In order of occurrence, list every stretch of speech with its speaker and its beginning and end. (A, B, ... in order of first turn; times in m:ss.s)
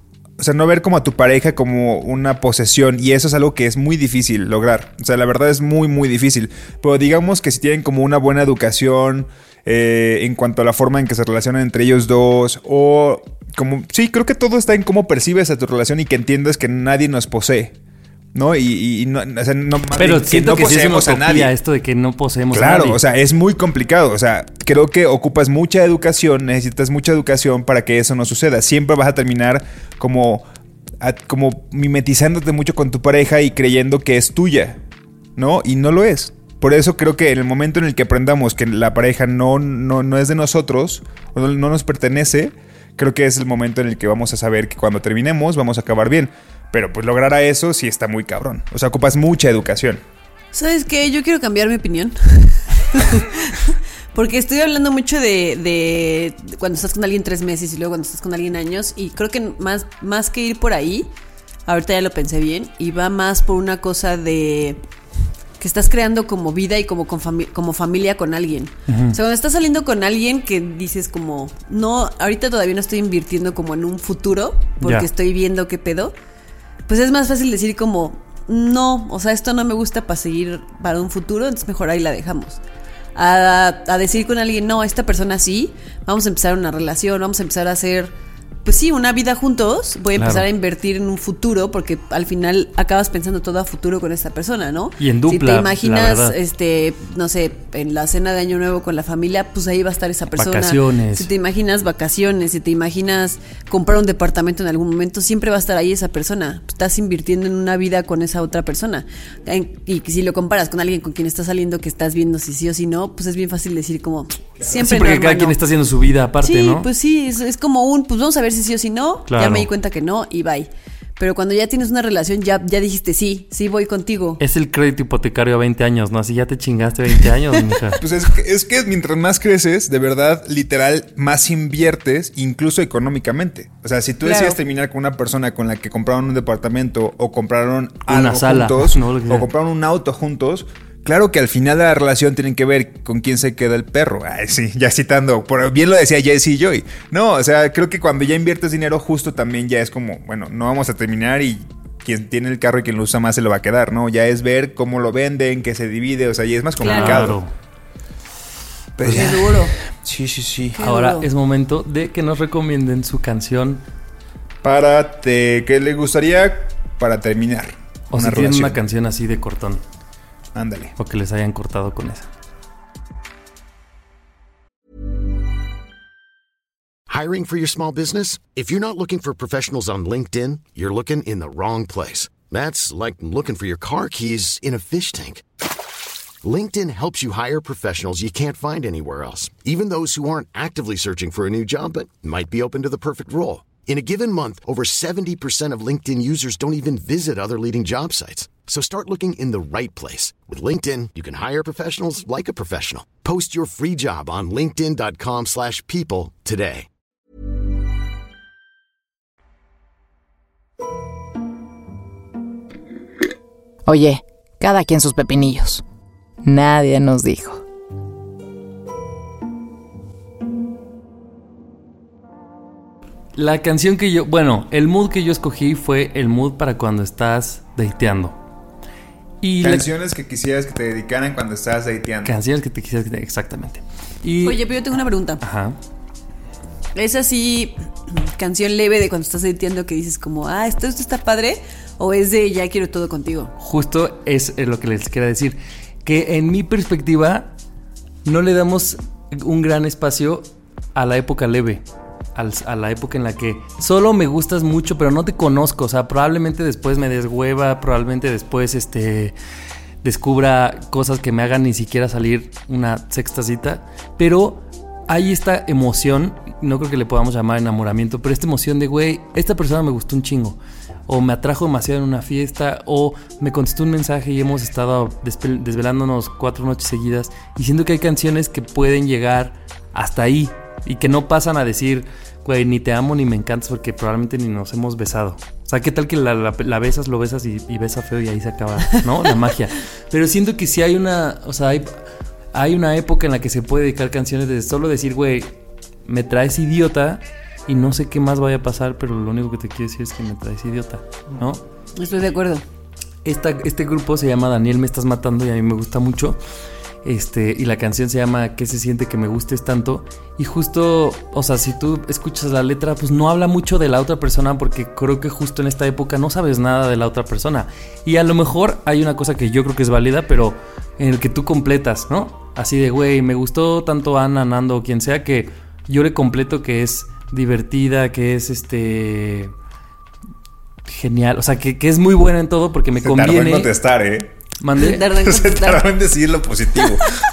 0:00.4-0:17.8 A
0:18.3-0:21.5 A
0:20.0-0:23.0 B
0:22.5-0:30.4 A
0:31.0-0:34.8 A
0:35.4-0:50.0 A
0:50.5-1:01.1 C
1:01.6-1:04.8 C
1:05.6-1:16.1 C
1:08.9-1:09.2 B
1:14.8-1:15.1 B
1:16.9-1:22.6 C
1:23.1-1:28.1 C
1:28.6-1:55.6 C
1:30.2-1:30.4 B
1:35.0-1:36.4 B
1:40.4-1:41.3 B
1:54.7-1:56.8 B
1:56.4-2:04.4 C
1:59.3-1:59.7 B
2:04.4-2:08.0 B
2:08.0-2:37.4 A
2:14.2-2:14.6 C
2:18.1-2:19.5 B
2:36.8-2:37.2 C
2:36.8-2:37.5 B
2:39.0-2:40.8 A
2:39.0-2:39.8 C
2:40.8-2:41.3 C
2:40.8-2:43.8 B
2:44.6-2:48.8 A
2:48.1-2:49.8 B
2:50.5-2:50.9 A
2:51.0-2:52.3 B
2:57.1-3:05.4 D
3:06.4-3:26.9 D
3:33.8-3:35.8 E
3:36.4-3:37.6 E
3:43.4-3:48.4 B
3:49.4-3:49.9 B
3:49.6-3:52.4 A
3:52.2-3:54.6 B
3:54.4-3:55.4 C
3:55.4-3:55.8 B
3:56.9-4:03.5 C
4:03.6-4:07.5 B
4:08.2-4:11.8 B
4:12.3-4:19.3 B
4:20.0-4:52.0 B
4:52.5-5:01.6 B
5:02.0-5:02.6 C
5:03.2-5:06.4 B
5:07.0-5:29.5 B
5:30.8-5:33.7 B
5:33.0-5:34.3 A
5:34.6-5:35.0 B
5:34.8-5:35.8 C
5:35.0-5:37.1 A